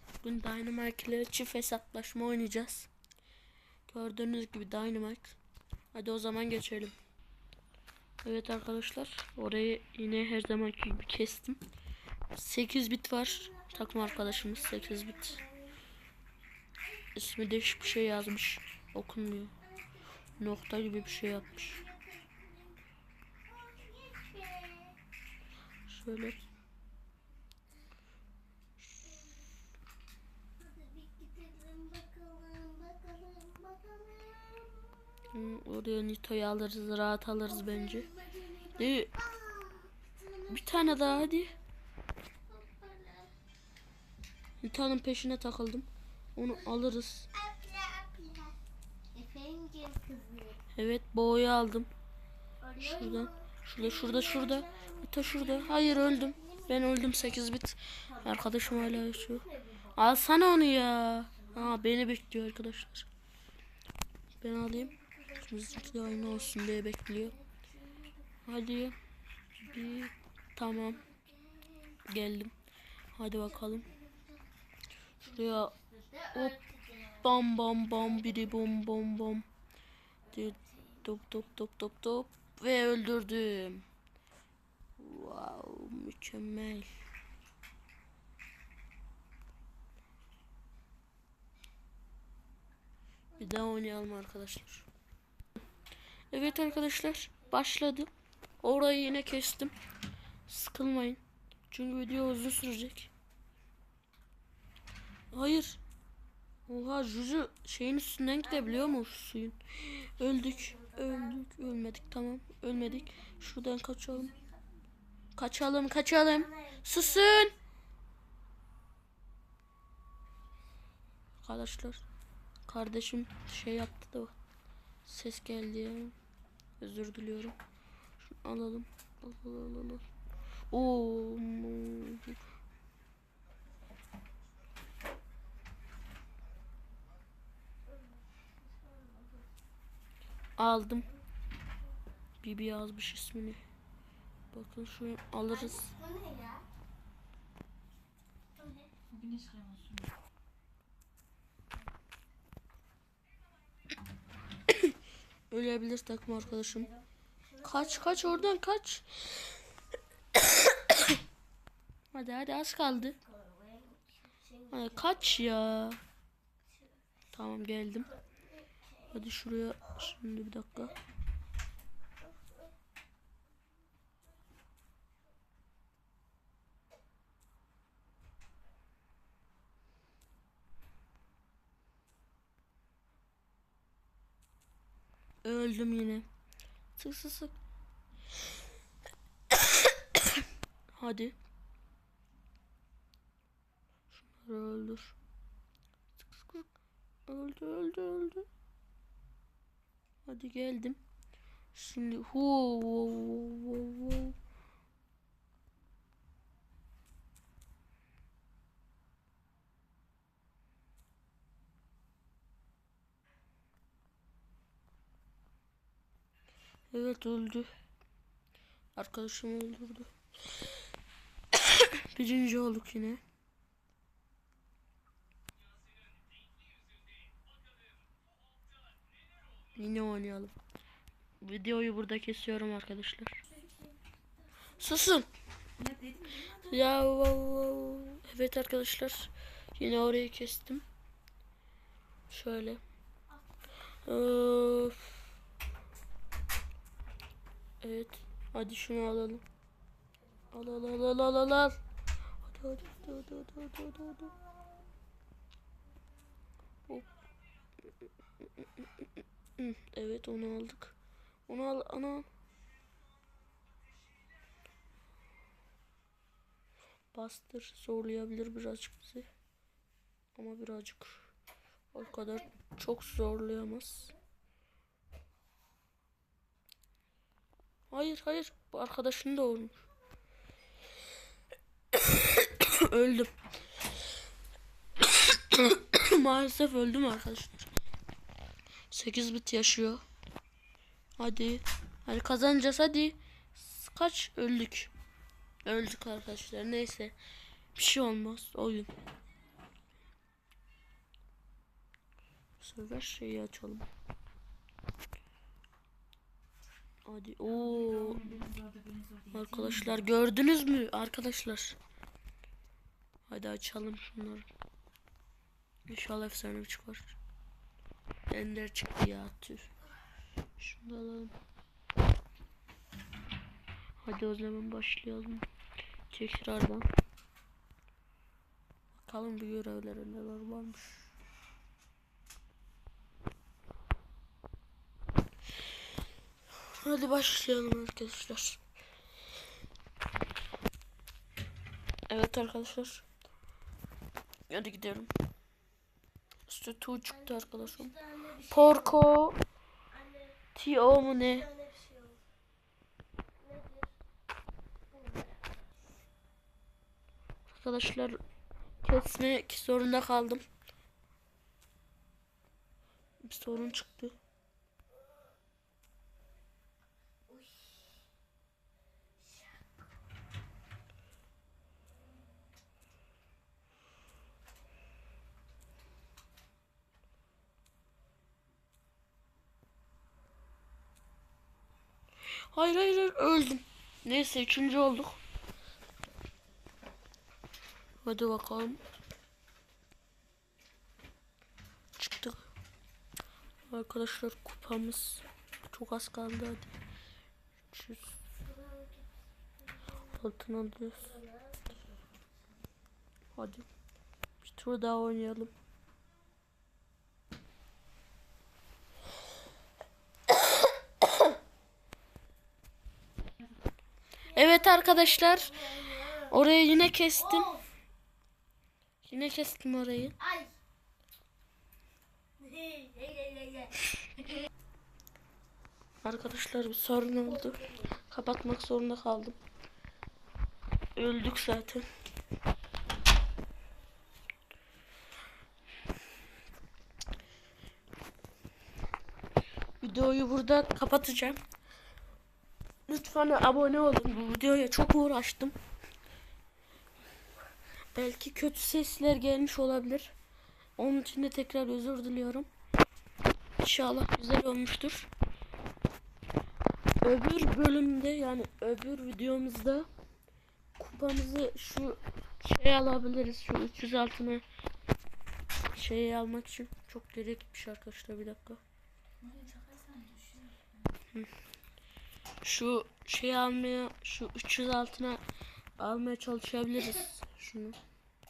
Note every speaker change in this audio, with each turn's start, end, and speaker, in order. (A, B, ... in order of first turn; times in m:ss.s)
0:00.2-0:02.9 A
0:03.9-0:05.4 A
0:05.9-0:07.0 A
0:08.2-0:11.6 A
0:12.3-0:15.4 A
0:13.2-0:15.8 B
0:17.2-0:19.5 A
0:19.6-0:22.8 B
0:20.4-0:21.8 A
0:23.5-0:25.0 B
0:25.8-0:26.4 A
0:30.6-0:35.3 B
0:35.3-0:38.1 A
0:37.5-0:41.5 B
0:38.8-0:39.1 A
0:40.5-0:41.5 A
0:42.5-0:43.3 B
0:44.6-0:47.3 A
0:47.3-0:48.6 B
0:49.1-0:50.6 B
0:50.7-0:51.9 A
0:52.6-0:57.4 B
0:52.8-1:03.1 A
0:58.1-1:00.0 B
1:01.4-1:01.8 B
1:04.4-1:07.4 A
1:04.7-1:06.6 B
1:07.2-1:08.3 B
1:08.5-1:09.0 A
1:09.6-1:11.0 A
1:10.7-1:12.0 B
1:12.1-1:12.5 A
1:13.1-1:13.9 A
1:13.5-1:14.5 B
1:15.2-1:15.7 A
1:15.3-1:17.3 B
1:17.2-1:19.5 A
1:18.0-1:18.6 B
1:20.3-1:21.1 B
1:20.3-1:23.8 A
1:25.0-1:26.9 A
1:33.4-1:34.9 A
1:36.3-1:38.1 A
1:36.4-1:37.5 B
1:38.6-1:39.7 A
1:40.5-1:43.1 A
1:45.3-1:45.8 A
1:46.7-1:54.4 A
1:48.4-1:49.0 B
1:50.2-1:52.0 B
1:52.9-1:53.3 B
1:55.4-1:57.5 A
1:56.3-1:57.5 B
2:01.4-2:02.0 A
2:02.7-2:04.4 A
2:05.0-2:06.2 A
2:06.8-2:07.6 A
2:08.2-2:10.1 A
2:10.7-2:12.4 A
2:17.9-2:19.5 B
2:20.6-2:21.1 A
2:22.4-2:23.6 A
2:24.5-2:25.9 A
2:25.5-2:26.6 B
2:28.6-2:28.9 B
2:29.1-2:30.1 C
2:35.5-2:36.9 A
2:36.6-2:38.6 B
2:37.6-2:39.3 A
2:40.5-2:41.1 A
2:42.1-2:43.2 A
2:43.1-2:45.5 B
2:44.7-2:46.0 A
2:47.3-2:48.1 A
2:48.3-2:49.1 B
2:49.1-2:51.0 A
3:05.4-3:06.3 A
3:07.0-3:07.6 A
3:09.5-3:11.4 A
3:14.1-3:15.2 A
3:16.2-3:16.7 A
3:17.3-3:18.5 A
3:20.3-3:21.0 A
3:21.7-3:24.4 A
3:36.9-3:37.7 A
3:39.0-3:40.1 A
3:41.5-3:43.2 A
3:49.8-3:50.5 A
3:51.4-3:53.4 A
3:53.4-3:54.0 B
3:54.8-3:55.3 A
3:55.8-3:56.8 C
3:56.5-4:00.8 A
4:02.3-4:02.8 A
4:04.0-4:05.2 A
4:07.8-4:09.4 A
4:10.5-4:11.8 A
4:12.4-4:14.4 A
4:18.6-4:21.0 A
4:21.5-4:22.3 A
4:27.1-4:29.3 A
4:30.4-4:31.3 A
4:31.9-4:34.1 A
4:32.0-4:32.4 B
4:37.9-4:39.8 A
4:41.9-4:43.3 A
4:45.0-4:47.7 A
4:48.9-4:50.0 A
4:51.2-4:54.9 A
4:55.6-4:57.2 A
4:57.8-4:58.9 A
5:02.6-5:03.9 A
5:07.1-5:08.4 A
5:07.6-5:09.9 C
5:09.3-5:11.8 A
5:13.3-5:14.5 A
5:15.9-5:17.2 A
5:18.3-5:19.7 A
5:20.6-5:21.4 A
5:24.0-5:25.5 A
5:26.1-5:26.9 A
5:28.9-5:31.1 A
5:36.7-5:38.6 A
5:42.1-5:43.1 A
5:44.5-5:45.1 A
5:46.5-5:47.9 A
5:47.2-5:49.0 B
5:48.4-5:49.4 A
5:49.9-5:50.4 B
5:50.5-5:51.5 A
5:51.3-5:52.2 B
5:53.4-5:53.9 B
5:54.9-5:55.7 B
5:57.5-5:58.2 A
5:58.8-6:00.4 A
6:03.2-6:04.1 A
6:07.3-6:08.0 B
6:09.2-6:09.6 B
6:22.5-6:25.2 A
6:28.0-6:28.8 A
6:32.0-6:32.5 A
6:33.7-6:36.8 A
6:37.7-6:38.2 A
6:38.4-6:39.2 B
6:39.7-6:40.0 B
6:40.1-6:41.2 A
6:41.0-6:42.2 B
6:43.4-6:43.7 A
6:44.4-6:45.5 A
6:54.3-6:56.3 B
6:54.3-6:57.6 A
6:57.2-6:57.7 B
6:59.0-7:00.2 A
7:00.2-7:00.5 B
7:02.4-7:03.9 B
7:06.0-7:09.4 A
7:07.4-7:07.9 B
7:11.0-7:11.9 A
7:19.8-7:21.4 A
7:22.9-7:25.6 A
7:28.0-7:30.1 A
7:30.8-7:32.5 A
7:33.6-7:35.1 A
7:37.0-7:39.9 A
7:40.8-7:44.4 A
7:45.7-7:48.6 A
7:49.2-7:50.8 C
7:52.4-7:55.2 A
7:55.8-7:57.8 A